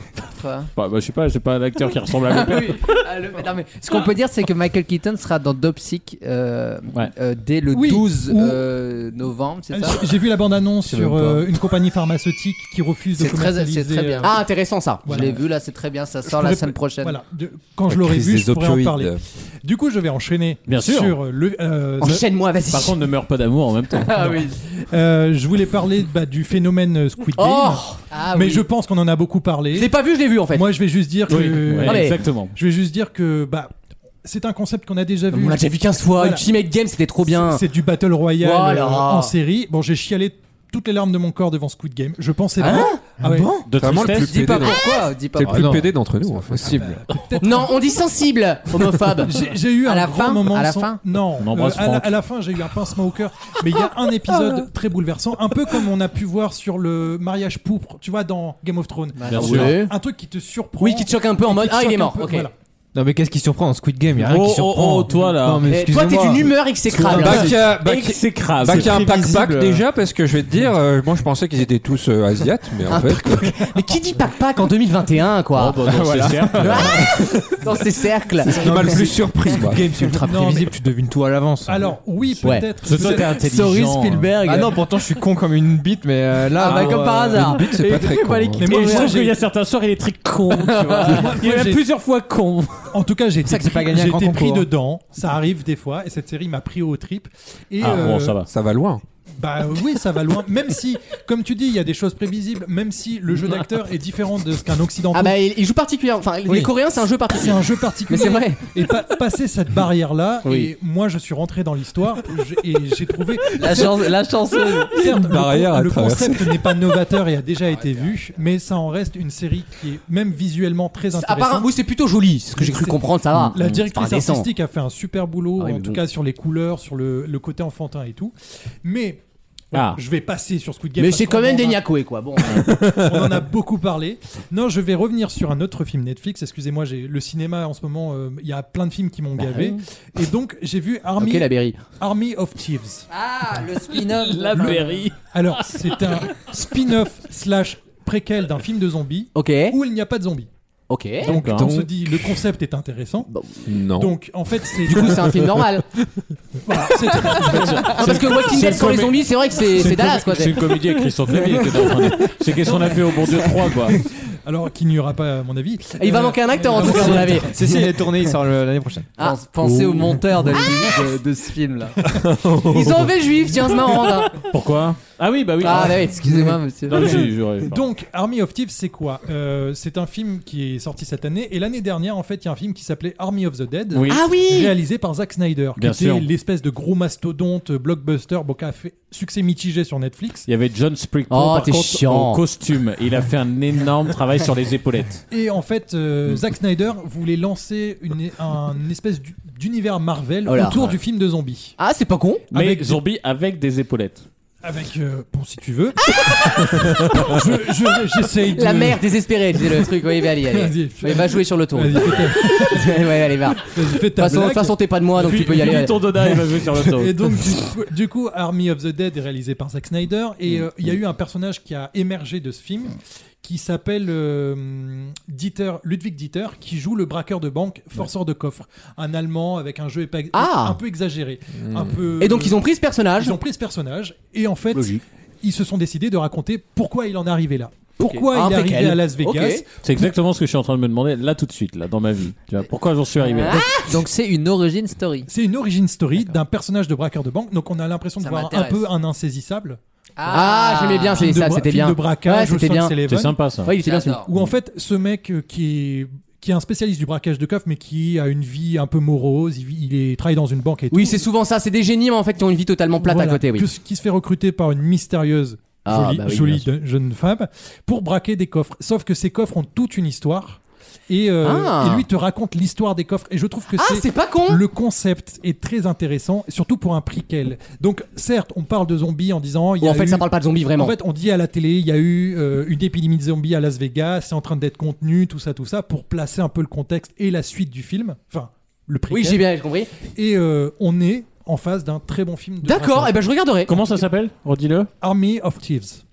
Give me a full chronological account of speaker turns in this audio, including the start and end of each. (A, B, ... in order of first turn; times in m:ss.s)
0:00.3-0:00.7 A
0:00.8-0:02.8 B
0:02.3-0:10.0 A
0:07.7-0:08.6 C
0:09.7-0:14.4 C
0:13.2-0:14.3 A
0:14.2-0:15.3 D
0:15.0-0:15.4 C
0:15.0-0:17.2 A
0:16.2-0:22.2 C
0:17.9-0:19.2 E
0:20.7-0:21.2 B
0:22.0-0:23.0 D
0:22.7-0:24.4 B
0:24.1-0:24.5 A
0:24.2-0:29.9 C
0:27.4-0:28.0 D
0:28.1-0:28.6 A
0:29.7-0:30.7 D
0:30.5-0:33.7 C
0:31.3-0:32.5 B
0:31.8-0:32.2 D
0:34.2-0:36.4 C
0:35.3-0:37.6 D
0:37.3-0:43.5 C
0:38.4-0:39.3 D
0:42.6-0:43.6 D
0:43.7-0:44.6 B
0:43.8-0:44.8 E
0:43.9-0:45.8 A
0:45.3-0:47.0 E
0:45.5-0:45.9 F
0:46.6-0:47.8 C
0:46.6-0:46.9 F
0:47.4-0:49.4 D
0:49.2-1:02.5 C
0:49.8-0:51.0 A
0:51.4-0:52.1 B
0:59.3-0:59.8 B
0:59.3-0:59.9 D
1:00.8-1:02.5 D
1:02.9-1:07.5 F
1:04.2-1:05.7 B
1:05.7-1:07.9 D
1:07.0-1:13.6 E
1:07.2-1:09.0 B
1:08.6-1:09.8 F
1:12.9-1:15.9 D
1:15.5-1:17.1 B
1:15.9-1:17.1 F
1:16.6-1:19.0 D
1:18.4-1:20.1 E
1:18.5-1:22.0 F
1:20.2-1:20.7 C
1:21.6-1:23.6 C
1:22.4-1:22.7 D
1:22.8-1:24.4 B
1:23.5-1:24.7 A
1:23.8-1:27.9 F
1:26.6-1:29.1 A
1:26.7-1:28.7 E
1:28.6-1:29.4 C
1:28.6-1:32.9 B
1:30.6-1:31.2 A
1:31.0-1:31.8 C
1:32.9-1:38.4 C
1:33.4-1:34.7 F
1:37.8-1:38.5 B
1:38.5-1:39.0 E
1:39.4-1:45.4 C
1:45.1-1:48.8 D
1:47.3-1:54.2 C
1:53.6-1:55.0 A
1:54.8-2:01.7 C
1:55.0-1:56.8 E
2:01.1-2:04.5 D
2:02.6-2:09.2 C
2:05.6-2:06.0 D
2:09.7-2:11.8 C
2:09.7-2:10.0 B
2:11.0-2:12.8 D
2:12.6-2:23.1 C
2:19.4-2:19.8 D
2:21.2-2:21.8 D
2:23.1-2:25.0 A
2:24.2-2:26.1 B
2:25.3-2:30.5 C
2:29.3-2:29.8 D
2:30.9-2:31.3 D
2:31.2-2:33.3 C
2:31.2-2:31.7 B
2:31.5-2:32.1 E
2:33.3-2:33.6 D
2:33.6-2:34.1 E
2:34.0-2:35.4 C
2:34.8-2:35.8 D
2:36.6-2:38.5 C
2:37.4-2:44.0 B
2:37.8-2:40.8 D
2:41.6-2:41.9 D
2:43.9-2:47.5 C
2:46.0-2:47.9 D
2:46.8-2:49.1 F
2:49.2-2:52.0 A
2:49.7-2:50.1 B
2:52.2-2:53.1 E
2:52.6-2:54.4 D
2:54.4-2:56.1 B
2:55.6-2:57.0 D
2:55.7-2:57.2 A
2:56.9-2:57.8 B
2:57.6-3:10.4 C
3:03.9-3:04.2 B
3:04.1-3:04.8 D
3:05.8-3:06.3 B
3:10.5-3:15.2 B
3:11.3-3:12.4 D
3:15.3-3:21.7 C
3:20.5-3:20.9 D
3:21.8-3:22.5 D
3:22.5-3:23.0 C
3:22.5-3:24.2 B
3:24.6-3:29.0 C
3:26.1-3:27.4 D
3:28.4-3:36.5 D
3:30.4-3:34.8 C
3:35.2-3:37.2 B
3:36.9-3:52.6 C
3:50.3-3:50.8 D
3:51.6-3:51.9 E
3:52.2-3:53.4 D
3:53.2-3:59.6 C
3:58.0-3:59.6 D
3:59.8-4:03.6 B
4:03.2-4:04.0 D
4:03.4-4:05.3 A
4:05.3-4:09.8 C
4:08.2-4:08.9 A
4:10.2-4:11.4 A
4:10.3-4:13.0 D
4:11.2-4:13.4 C
4:13.1-4:13.7 B
4:13.6-4:14.2 D
4:13.8-4:14.3 A
4:14.2-4:21.2 C
4:20.9-4:23.7 D
4:23.0-4:49.5 C
4:25.8-4:26.7 D
4:31.4-4:32.0 D
4:33.7-4:34.6 D
4:39.8-4:41.0 D
4:49.1-4:50.0 D
4:50.0-4:53.2 C
4:52.6-4:53.8 D
4:53.6-4:54.9 B
4:55.0-4:56.0 C